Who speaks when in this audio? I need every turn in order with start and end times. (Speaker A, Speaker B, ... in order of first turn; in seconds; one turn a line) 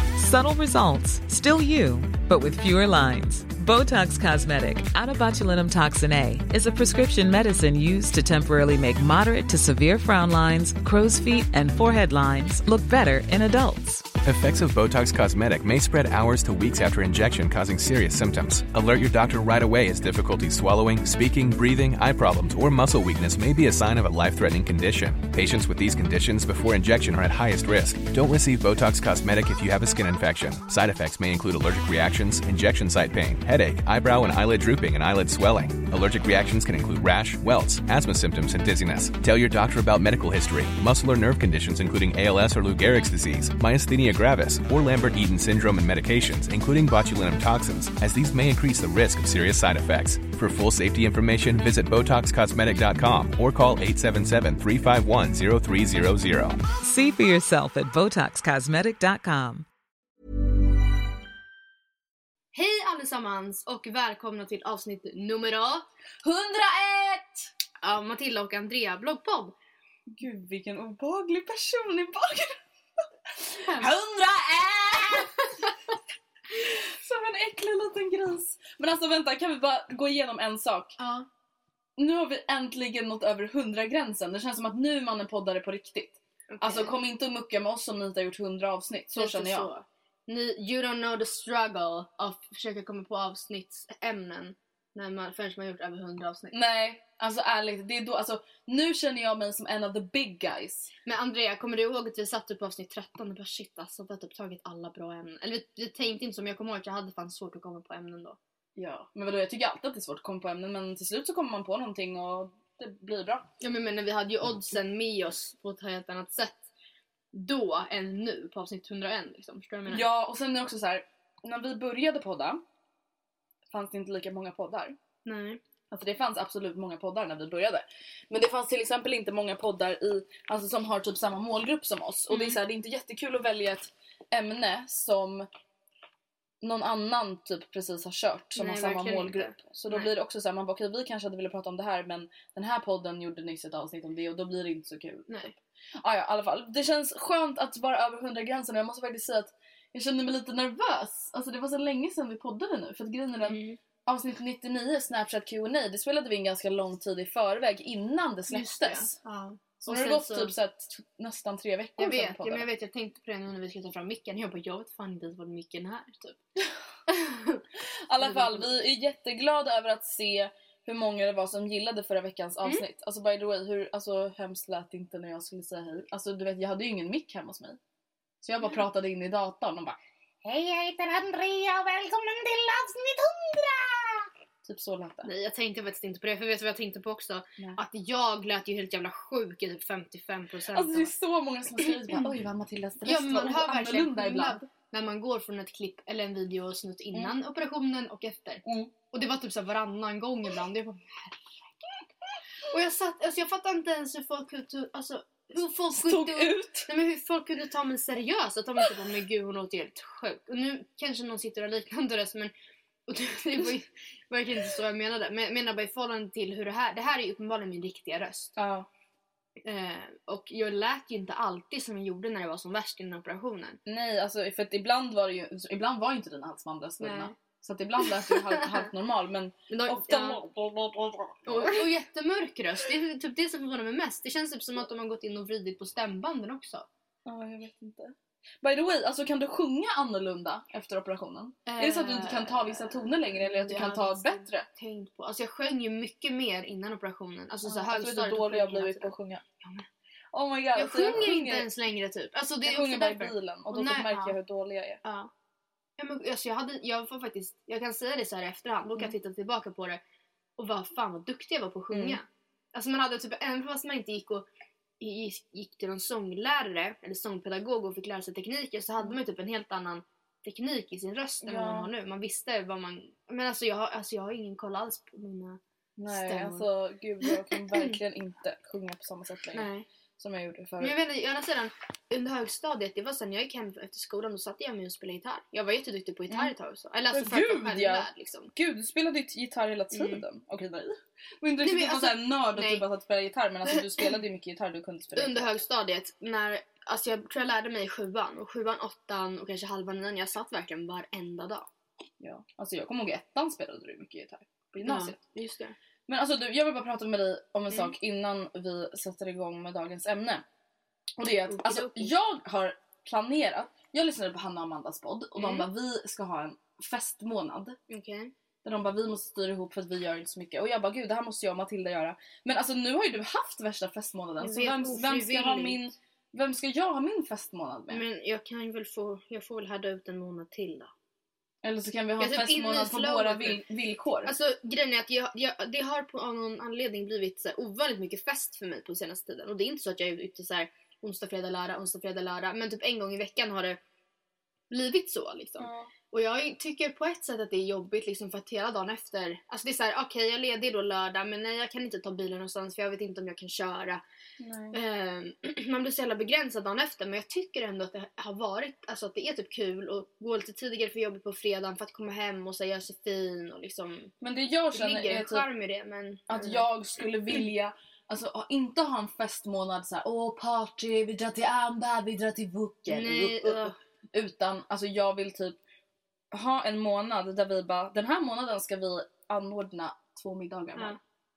Speaker A: 0.1-14.1
Speaker B: 14.2-56.6
Speaker A: 56.8-59.7
Speaker C: 62.5-65.9
Speaker D: 66.2-67.5
Speaker C: 67.8-69.5
Speaker D: 70.1-72.6
Speaker D: 73.3-75.7
Speaker C: 73.6-73.9
Speaker D: 76.5-81.0
Speaker C: 81.0-81.3
Speaker D: 82.0-89.7
Speaker C: 86.5-87.0
Speaker C: 89.2-96.6
Speaker D: 96.5-100.9
Speaker C: 101.0-108.4
Speaker D: 108.8-113.5
Speaker C: 113.6-116.7
Speaker C: 117.3-120.1
Speaker D: 119.9-122.6
Speaker D: 123.7-125.0
Speaker C: 125.2-125.6
Speaker D: 125.9-135.5
Speaker C: 132.3-132.6
Speaker D: 136.6-145.3
Speaker C: 138.6-140.1
Speaker C: 145.3-145.6
Speaker D: 146.0-159.2
Speaker C: 153.4-153.8
Speaker C: 158.5-160.5
Speaker D: 159.8-162.7
Speaker C: 162.0-166.4
Speaker C: 167.1-167.7
Speaker D: 168.1-177.8
Speaker C: 168.2-168.7
Speaker D: 178.4-180.0
Speaker C: 180.4-184.3
Speaker D: 184.6-185.3
Speaker C: 185.2-191.1
Speaker D: 190.7-194.7
Speaker C: 191.8-192.4
Speaker C: 193.1-202.1
Speaker D: 198.6-198.9
Speaker C: 202.7-212.5
Speaker D: 205.9-206.9
Speaker C: 213.1-218.6
Speaker D: 218.6-218.9
Speaker C: 219.6-223.8
Speaker D: 223.9-231.9
Speaker C: 227.0-227.3
Speaker C: 228.0-228.9
Speaker C: 229.7-230.4
Speaker C: 231.4-236.9
Speaker D: 237.3-244.7
Speaker C: 241.7-249.9
Speaker D: 247.6-249.4
Speaker D: 250.3-251.7
Speaker C: 250.8-254.4
Speaker D: 252.6-255.0
Speaker C: 255.0-255.3
Speaker C: 256.0-260.0
Speaker C: 260.6-264.5
Speaker D: 261.9-262.2
Speaker C: 265.0-276.7
Speaker D: 271.4-271.9
Speaker D: 276.0-281.0
Speaker C: 277.2-278.0
Speaker C: 279.5-279.9
Speaker C: 280.8-288.5
Speaker D: 286.3-286.5
Speaker D: 287.1-295.5
Speaker C: 289.9-290.2
Speaker C: 291.6-292.9
Speaker C: 293.7-294.1
Speaker C: 295.1-301.7
Speaker D: 302.2-305.2
Speaker C: 304.8-305.8
Speaker D: 306.1-310.4
Speaker D: 311.2-317.8
Speaker C: 311.5-312.1
Speaker C: 315.4-315.7
Speaker C: 317.9-318.3
Speaker D: 318.6-328.0
Speaker C: 324.4-325.8
Speaker C: 327.9-330.9
Speaker D: 331.6-334.3
Speaker C: 332.2-333.6
Speaker C: 334.2-343.8
Speaker C: 344.7-354.0
Speaker D: 345.6-345.9
Speaker D: 354.4-354.8
Speaker C: 354.7-364.1
Speaker D: 364.2-365.5
Speaker C: 364.7-366.6
Speaker D: 366.3-375.6
Speaker C: 372.9-373.8
Speaker D: 376.3-381.0